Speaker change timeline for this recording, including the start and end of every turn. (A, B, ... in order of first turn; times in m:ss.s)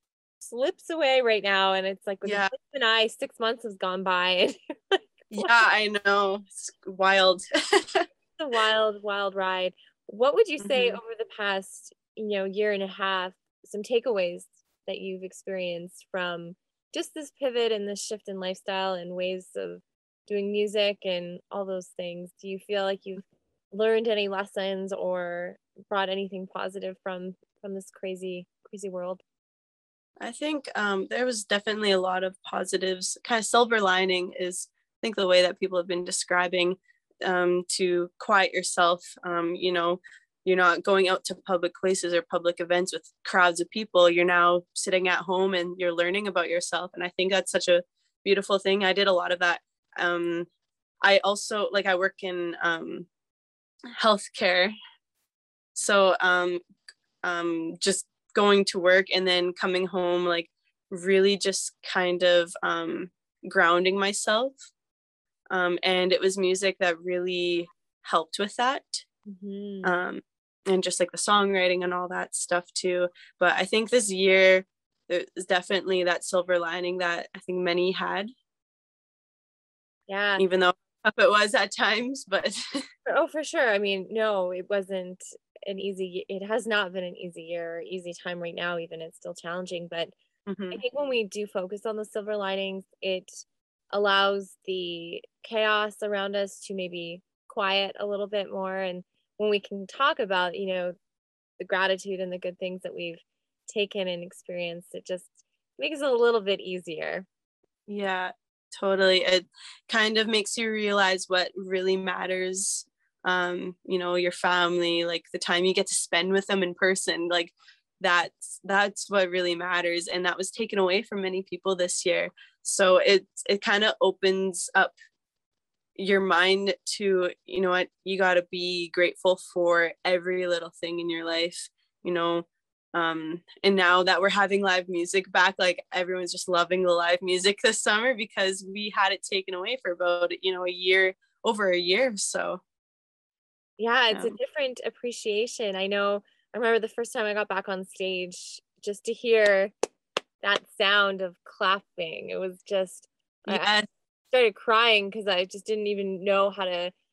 0:00.4-0:05.5 A
0:02.2-0:02.5 B
0:05.3-0:08.0 B
0:08.3-0:29.2 A
0:10.6-0:11.0 B
0:30.2-0:50.5 B
0:51.0-0:53.1 B
0:54.0-0:54.7 B
0:55.7-0:56.6 B
0:57.2-1:04.6 B
1:05.5-1:09.0 B
1:09.3-1:09.9 A
1:09.8-1:18.3 B
1:20.1-1:20.4 A
1:20.4-1:22.5 B
1:23.0-1:30.1 A
1:30.5-1:30.8 B
1:30.7-1:40.9 A
1:41.6-1:47.2 A
1:47.9-2:04.9 B
2:06.0-2:22.6 B
2:23.8-2:29.7 A
2:24.1-2:24.4 B
2:30.4-2:36.9 A
2:33.5-2:33.8 B